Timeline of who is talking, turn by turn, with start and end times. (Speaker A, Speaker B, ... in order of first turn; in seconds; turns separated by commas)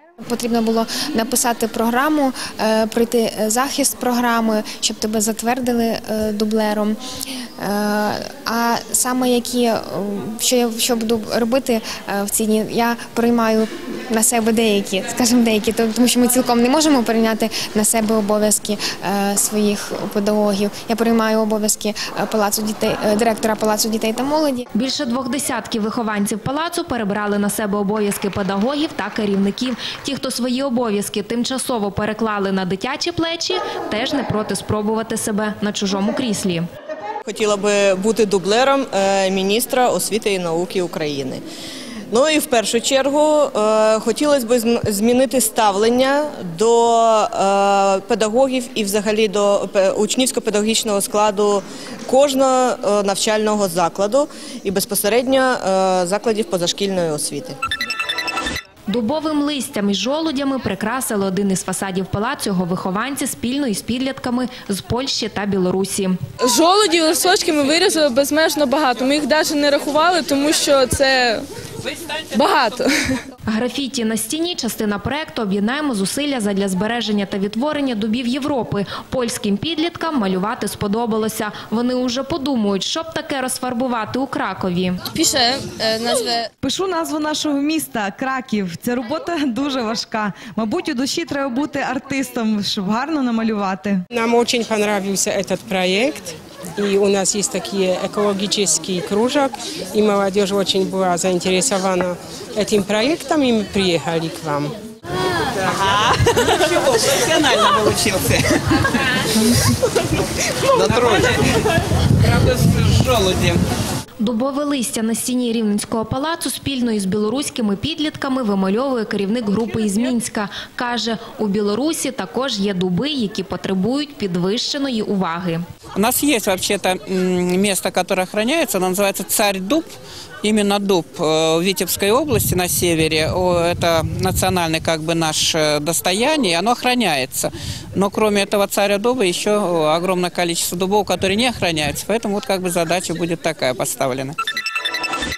Speaker A: 0.3-7.0, Speaker A: 7.6-24.6, Speaker B: 24.7-36.6, Speaker C: 37.2-41.4, Speaker C: 42.1-57.6, Speaker B: 58.9-66.1, Speaker D: 66.5-71.4, Speaker D: 72.3-72.8, Speaker B: 73.5-85.0, Speaker D: 85.1-86.5, Speaker E: 86.6-94.0, Speaker F: 94.1-96.2, Speaker F: 96.8-104.7, Speaker G: 105.5-108.8, Speaker G: 110.8-111.5, Speaker G: 112.2-113.6, Speaker B: 114.2-125.6, Speaker G: 125.9-129.9, Speaker G: 130.4-144.3